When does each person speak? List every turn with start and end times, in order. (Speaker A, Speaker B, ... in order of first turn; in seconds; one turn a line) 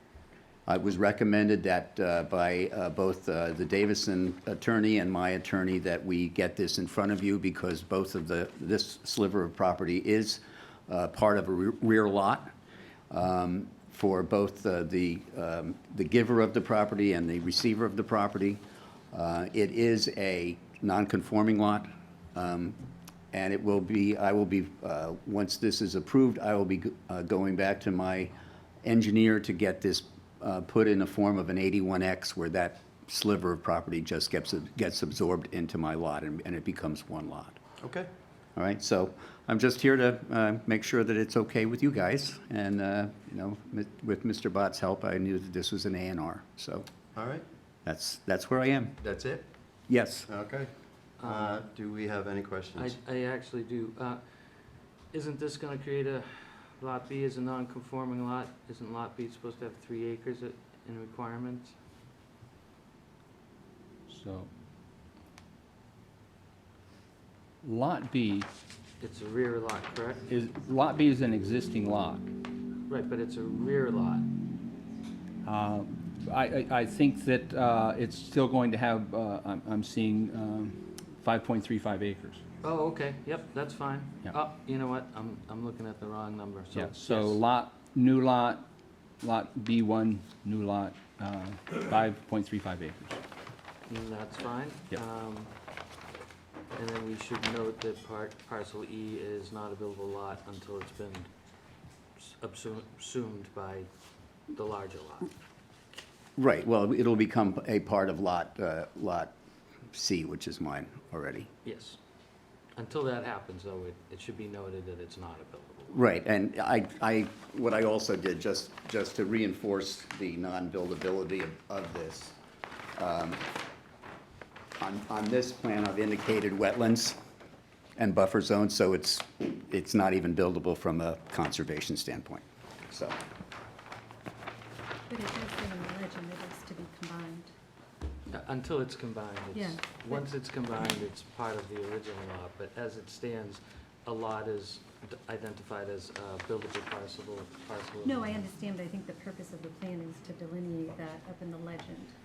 Speaker A: 0.7-12.5
Speaker A: 13.1-22.8
Speaker A: 23.3-28.3
Speaker A: 28.8-37.6
Speaker B: 37.8-38.1
Speaker A: 38.5-46.9
Speaker B: 47.1-47.4
Speaker A: 47.8-49.0
Speaker B: 49.0-49.4
Speaker A: 49.9-50.3
Speaker B: 50.3-50.7
Speaker C: 51.2-51.6
Speaker B: 51.2-53.0
Speaker C: 52.8-54.2
Speaker C: 55.1-61.7
Speaker D: 64.1-64.5
Speaker D: 67.6-68.5
Speaker C: 69.0-70.2
Speaker D: 70.3-72.3
Speaker C: 72.9-74.2
Speaker D: 75.4-82.4
Speaker C: 82.6-87.4
Speaker D: 86.7-88.6
Speaker D: 89.2-93.2
Speaker C: 93.8-95.5
Speaker C: 96.7-101.3
Speaker C: 102.2-103.9
Speaker C: 104.5-105.3
Speaker A: 106.4-109.3
Speaker A: 109.9-111.5
Speaker C: 111.6-112.0
Speaker C: 112.8-116.0
Speaker A: 115.9-122.4
Speaker A: 123.0-123.4
Speaker A: 124.8-127.2
Speaker A: 128.0-133.2
Speaker E: 135.1-137.5
Speaker C: 138.3-148.4
Speaker E: 139.5-140.3
Speaker E: 148.0-152.1